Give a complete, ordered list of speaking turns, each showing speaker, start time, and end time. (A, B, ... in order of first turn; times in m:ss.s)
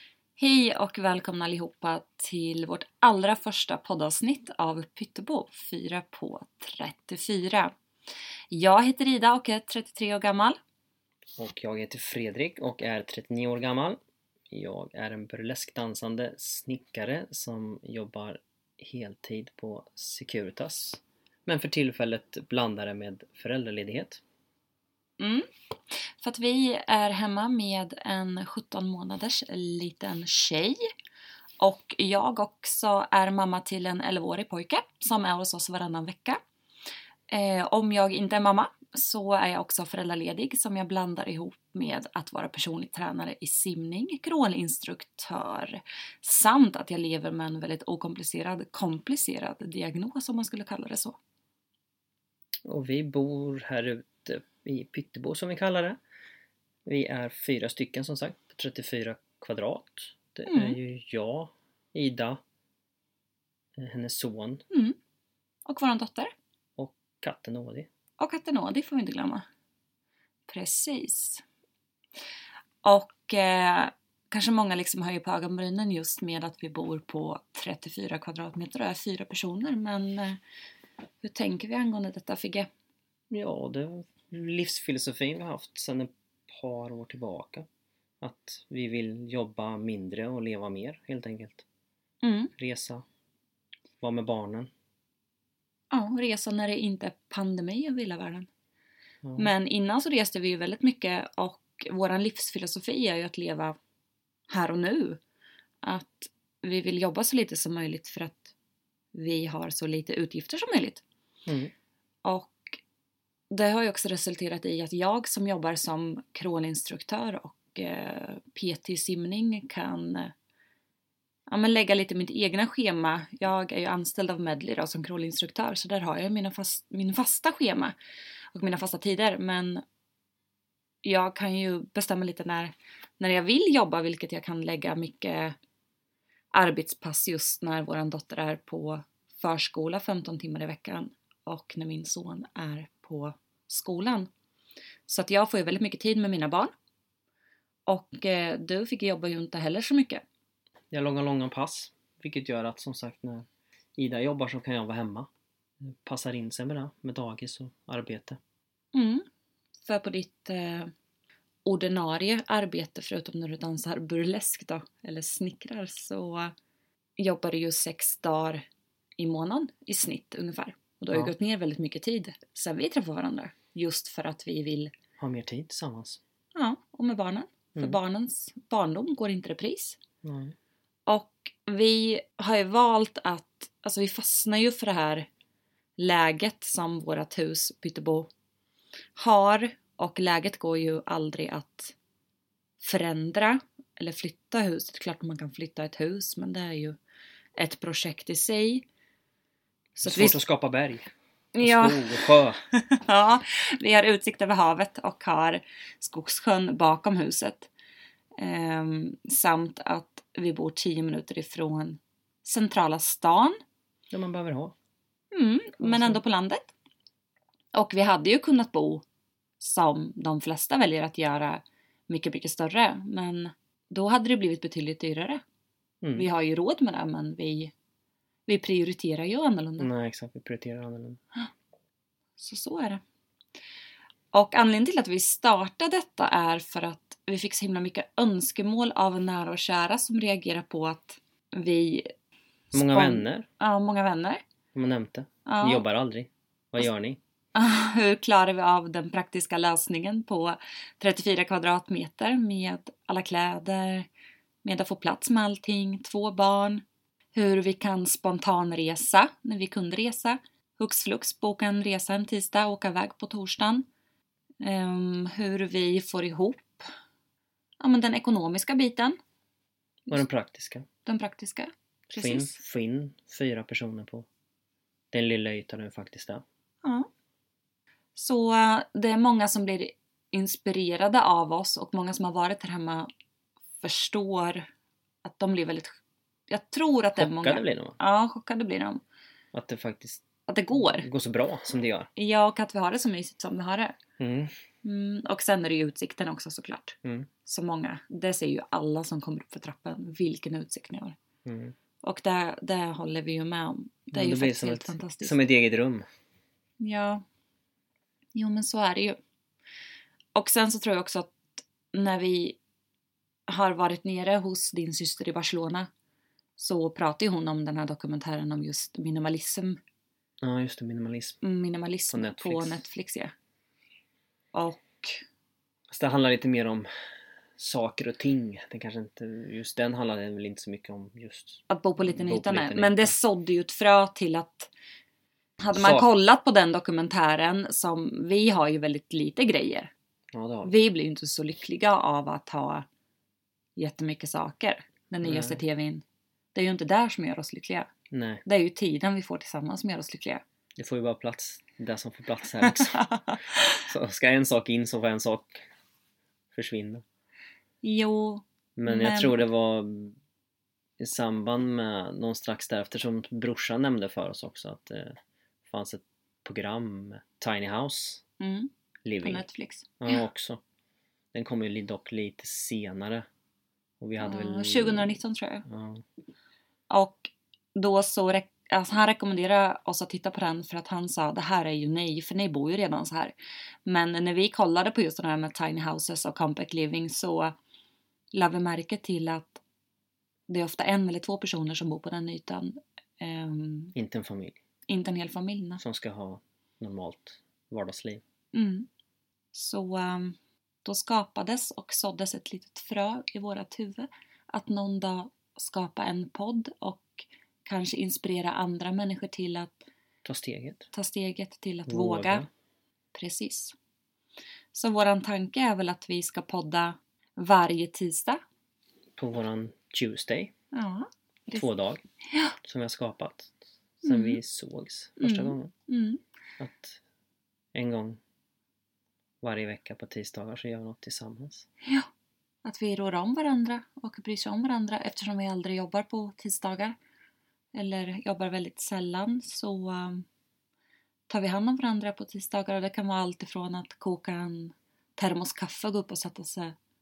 0:00.4-0:07.7 A
0:08.5-0:10.6 A
0:11.4-0:14.0 B
0:14.5-0:24.2 B
0:25.2-0:25.5 A
0:26.2-0:30.8 A
0:31.6-0:36.4 A
0:37.3-0:51.2 A
0:52.6-0:56.0 B
0:56.8-1:02.4 B
1:00.5-1:00.8 A
1:03.8-1:04.6 B
1:04.7-1:05.0 A
1:05.6-1:06.3 A
1:06.8-1:07.9 B
1:08.2-1:09.4 A
1:10.5-1:11.4 A
1:12.8-1:20.4 A
1:21.2-1:22.7 A
1:23.3-1:27.6 B
1:28.2-1:31.6 B
1:32.2-1:32.5 A
1:32.6-1:33.0 B
1:34.0-1:34.7 B
1:35.9-1:38.5 A
1:39.2-1:39.5 B
1:39.4-1:43.8 A
1:44.5-1:45.2 A
1:45.8-1:48.5 A
1:49.1-1:51.0 A
1:51.4-1:51.7 B
1:52.2-1:52.8 A
1:53.5-2:00.3 A
2:01.5-2:08.0 A
2:08.5-2:09.8 A
2:11.0-2:15.6 A
2:16.5-2:24.3 A
2:25.1-2:26.7 A
2:27.9-2:30.2 A
2:30.9-2:35.3 B
2:35.8-2:38.4 B
2:38.9-2:39.2 A
2:39.8-2:40.9 A
2:41.6-2:46.5 A
2:47.2-2:48.6 A
2:49.2-2:54.9 A
2:55.2-2:56.2 B
2:56.5-3:00.0 A
3:00.2-3:00.5 B
3:01.1-3:05.3 A
3:06.0-3:08.3 A
3:09.2-3:11.9 A
3:12.8-3:17.0 A
3:17.6-3:18.8 A
3:20.0-3:20.4 A
3:20.0-3:21.1 B
3:21.5-3:27.7 A
3:21.6-3:22.6 B
3:28.4-3:33.6 A
3:34.1-3:34.7 B
3:35.3-3:36.7 A
3:35.8-3:36.2 B
3:37.7-3:39.0 A
3:39.6-3:45.4 A
3:46.0-3:46.3 B
3:46.1-3:47.7 A
3:48.5-3:49.9 A
3:49.8-3:51.2 B
3:52.4-3:53.0 A
3:54.3-4:02.1 A
4:02.7-4:04.4 A
4:02.7-4:03.5 B
4:04.7-4:07.2 B
4:05.4-4:05.8 A
4:07.5-4:14.1 A
4:14.6-4:16.8 A
4:17.3-4:23.9 A
4:24.6-4:26.9 A
4:27.8-4:29.2 A
4:30.1-4:30.8 B
4:31.0-4:32.6 A
4:32.1-4:34.2 B
4:35.1-4:36.4 B
4:38.2-4:43.1 A
4:43.8-4:44.7 A
4:45.2-4:45.9 A
4:46.5-4:49.0 A
4:47.2-4:48.0 B
4:49.5-4:52.1 B
4:50.5-4:51.1 A
4:52.2-4:54.0 A
4:54.2-4:54.5 B
4:54.8-5:01.2 A
5:01.4-5:01.7 B
5:02.0-5:05.4 A
5:04.1-5:06.0 B
5:06.8-5:07.2 A
5:08.3-5:09.2 A
5:10.3-5:12.6 A
5:13.5-5:15.9 A
5:16.6-5:19.8 A
5:20.4-5:21.4 B
5:21.4-5:23.3 A
5:22.1-5:22.8 B
5:24.5-5:25.2 A
5:25.9-5:26.9 B
5:27.6-5:33.1 B
5:31.7-5:34.7 A
5:35.6-5:39.9 A
5:35.7-5:36.1 B
5:40.3-5:40.7 B
5:40.6-5:42.8 A
5:43.8-5:47.9 A
5:45.2-5:45.6 B
5:48.1-5:48.4 B
5:48.4-5:50.4 A
5:50.8-5:53.1 B
5:52.7-5:53.6 A
5:53.7-5:55.6 B
5:56.5-5:57.0 B
5:57.8-5:59.4 A
5:58.8-6:00.2 B
6:01.0-6:08.2 B
6:08.4-6:08.7 A
6:09.0-6:09.4 B
6:09.2-6:10.2 A
6:10.0-6:10.6 B
6:11.3-6:13.2 B
6:14.0-6:15.1 B
6:14.2-6:15.6 A
6:15.6-6:16.0 B
6:16.9-6:27.6 A
6:28.3-6:29.6 A
6:30.5-6:33.9 A
6:33.9-6:34.6 B
6:34.9-6:35.8 A
6:35.8-6:38.2 B
6:38.5-6:38.9 A
6:39.5-6:49.8 A
6:50.2-6:50.9 B
6:50.9-6:52.5 A
6:51.9-6:52.5 B
6:53.1-6:53.7 A
6:54.7-6:58.4 A
6:59.2-7:00.5 B
7:00.7-7:01.6 A
7:01.5-7:02.0 B
7:02.2-7:02.5 A
7:02.6-7:05.7 B
7:04.0-7:04.4 A
7:05.2-7:06.2 A
7:06.6-7:07.0 B
7:07.7-7:08.2 B
7:09.4-7:11.6 B
7:11.8-7:12.1 A
7:12.6-7:17.0 A
7:17.7-7:20.2 A
7:21.3-7:26.7 A